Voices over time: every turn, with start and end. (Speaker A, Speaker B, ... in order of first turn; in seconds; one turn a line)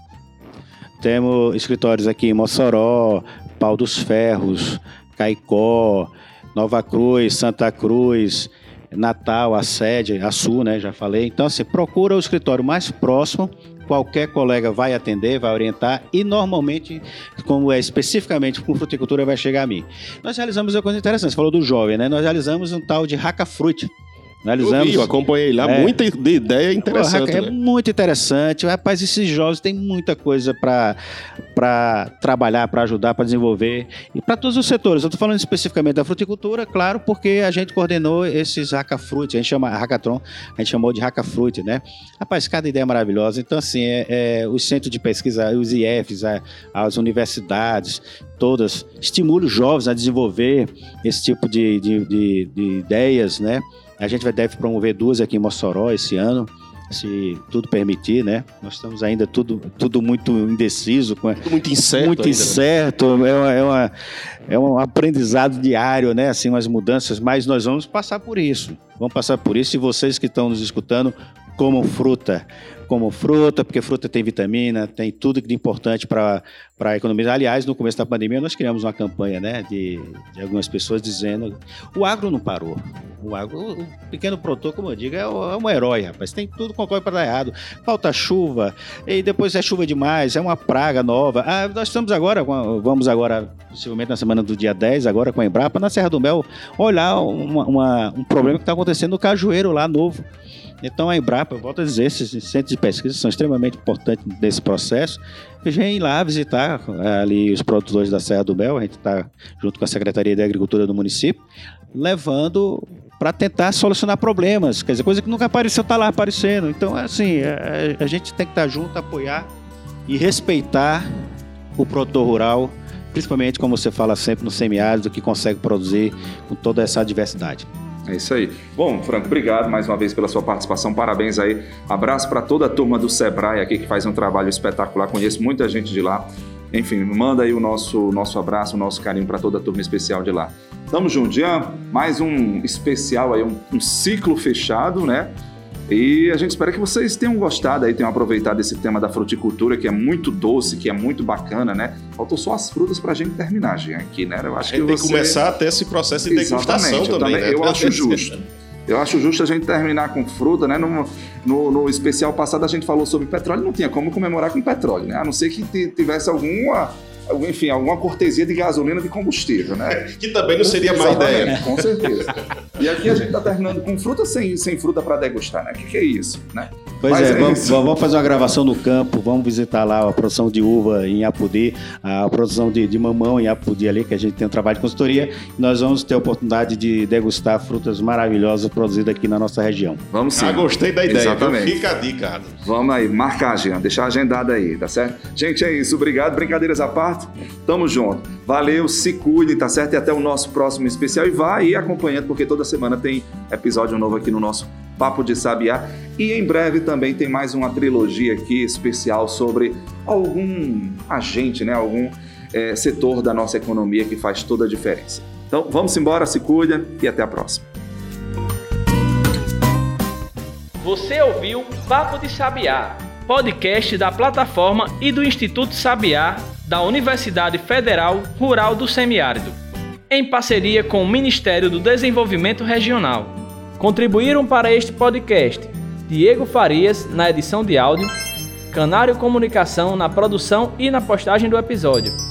Speaker A: 1.0-23.9
Speaker A: 24.4-26.0
Speaker B: 24.6-27.5
Speaker A: 26.9-31.0
Speaker A: 31.5-63.9
Speaker B: 61.4-62.6
Speaker A: 64.5-100.2
Speaker A: 100.8-111.4
Speaker A: 111.9-119.5
Speaker A: 120.1-121.2
Speaker A: 121.8-127.7
Speaker C: 128.1-145.3
Speaker C: 145.9-155.4
Speaker B: 154.6-158.4
Speaker C: 156.3-158.3
Speaker C: 158.9-177.8
Speaker B: 169.9-172.0
Speaker A: 177.0-190.0
Speaker C: 190.1-191.8
Speaker B: 190.3-192.6
Speaker C: 192.6-217.6
Speaker D: 220.8-229.6
Speaker D: 230.1-238.1
Speaker D: 238.7-242.2